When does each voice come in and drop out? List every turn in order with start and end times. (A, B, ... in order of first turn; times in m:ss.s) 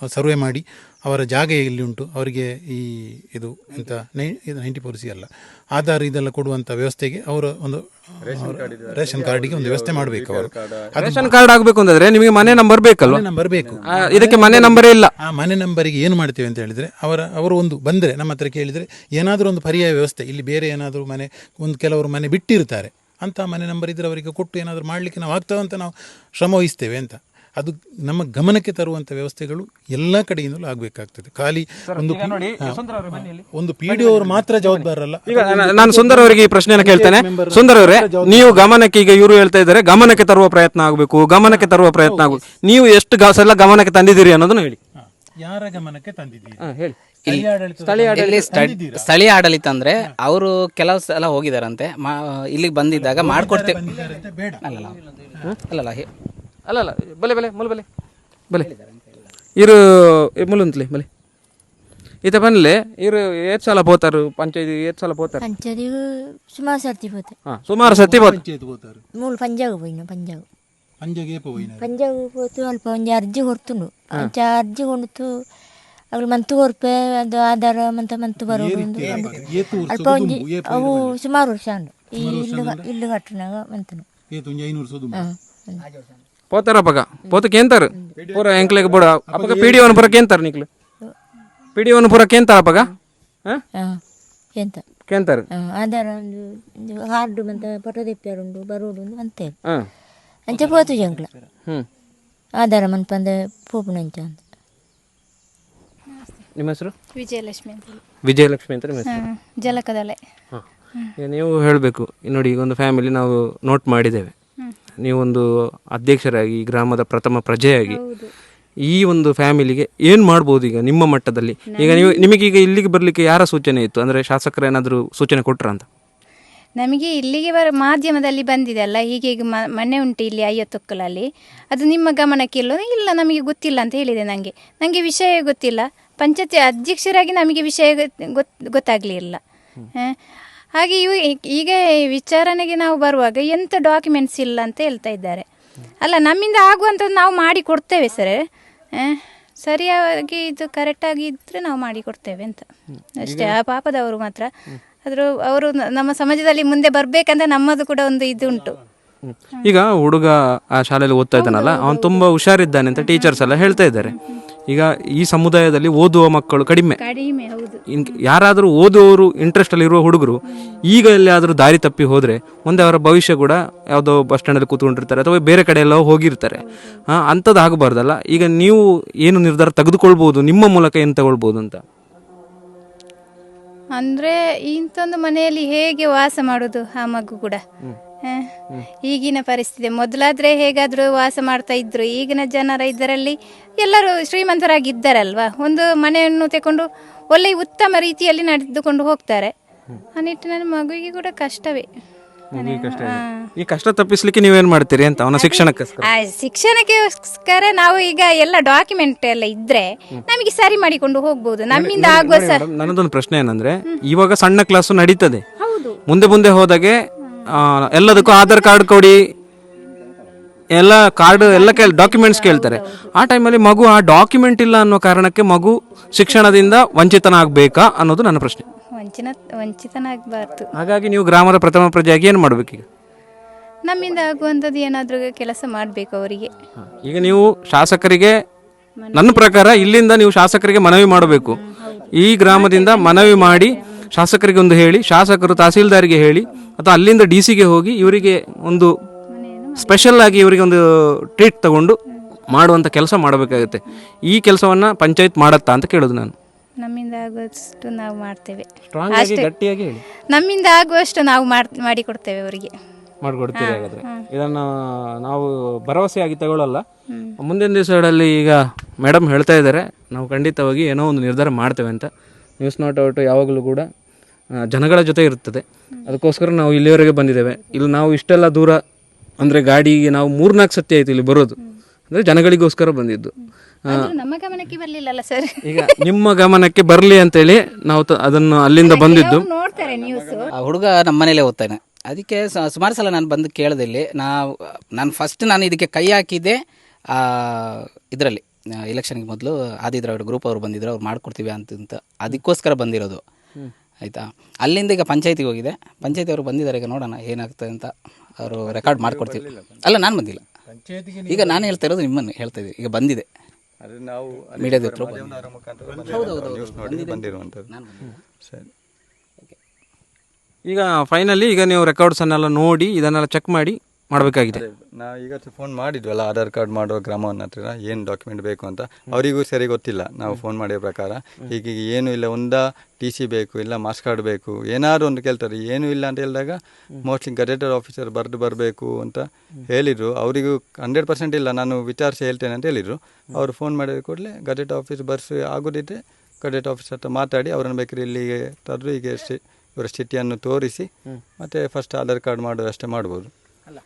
0:00.1-0:11.4 A
0:08.2-0:10.9 B
0:11.0-0:13.2 C
0:13.0-0:38.7 A
0:13.6-0:14.4 B
0:13.9-0:15.1 C
0:31.9-0:44.8 C
0:41.4-0:42.4 A
0:45.0-0:46.6 A
0:46.6-0:47.0 C
0:47.2-0:49.1 A
0:47.8-0:48.5 C
0:48.1-0:53.9 D
0:52.9-0:54.7 A
0:54.6-0:56.1 D
0:56.7-0:57.9 C
0:58.6-0:59.2 D
0:59.6-1:01.1 C
1:02.2-1:05.4 C
1:05.4-1:07.4 E
1:07.5-1:08.4 C
1:07.8-1:09.0 A
1:09.1-1:10.4 E
1:11.0-1:11.9 A
1:11.7-1:15.3 E
1:16.1-1:24.1 E
1:18.4-1:21.2 A
1:22.2-1:22.9 A
1:24.3-1:25.3 A
1:25.1-1:25.8 E
1:26.5-1:30.7 C
1:28.1-1:29.1 B
1:29.3-1:30.1 A
1:31.8-1:32.9 C
1:33.8-1:34.0 E
1:34.6-1:34.8 E
1:35.1-1:35.5 C
1:35.5-1:39.6 E
1:40.5-1:41.3 E
1:42.6-1:44.4 E
1:46.1-1:46.4 F
1:46.6-1:46.9 C
1:47.1-1:48.0 F
1:48.2-1:49.2 C
1:49.1-1:50.2 F
1:51.2-1:54.3 C
1:55.0-1:58.0 C
1:57.9-1:58.3 F
1:58.9-2:05.9 C
2:01.7-2:02.3 F
2:06.8-2:19.4 F
2:20.8-2:25.4 F
2:26.0-2:28.4 F
2:29.0-2:32.6 F
2:33.2-2:34.5 F
2:33.2-2:33.5 C
2:35.0-2:38.8 F
2:39.2-2:47.0 C
2:41.4-2:42.3 F
2:43.0-2:44.4 F
2:47.0-2:48.2 F
2:47.9-3:01.8 C
2:50.5-2:50.8 F
2:56.5-2:57.0 F
3:04.0-3:07.6 F
3:08.2-3:08.5 F
3:09.0-3:19.5 F
3:20.1-3:21.9 F
3:22.5-3:26.1 C
3:22.6-3:23.4 F
3:25.4-3:32.9 F
3:31.7-3:35.4 C
3:35.6-3:36.0 F
3:36.1-3:37.0 C
3:37.5-3:39.2 C
3:38.0-3:38.9 F
3:40.7-3:48.6 C
3:41.3-3:43.1 F
3:49.0-3:50.7 F
3:50.8-3:52.8 C
3:53.9-3:56.5 F
3:56.8-3:58.4 C
3:59.0-3:59.8 F
3:59.1-4:01.6 C
4:01.0-4:04.1 F
4:02.1-4:08.9 C
4:09.3-4:10.3 F
4:09.8-4:12.0 C
4:12.5-4:16.3 C
4:13.6-4:14.0 F
4:16.8-4:19.5 F
4:18.9-4:20.0 C
4:20.3-4:22.7 F
4:23.2-4:26.8 C
4:23.5-4:24.2 F
4:27.4-4:33.9 C
4:34.5-4:38.8 C
4:39.4-4:41.6 C
4:42.1-4:43.3 C
4:43.4-4:45.9 F
4:45.6-4:49.5 C
4:48.8-4:50.5 F
4:49.7-4:50.6 B
4:50.5-4:56.6 D
4:57.1-5:03.2 D
5:04.0-5:10.4 D
5:08.5-5:10.0 B
5:10.7-5:11.8 A
5:11.3-5:13.3 D
5:13.8-5:17.7 B
5:14.6-5:15.2 D
5:15.9-5:16.4 A
5:16.1-5:18.2 D
5:20.6-5:24.6 C
5:24.5-5:50.9 B
5:51.4-5:53.3 B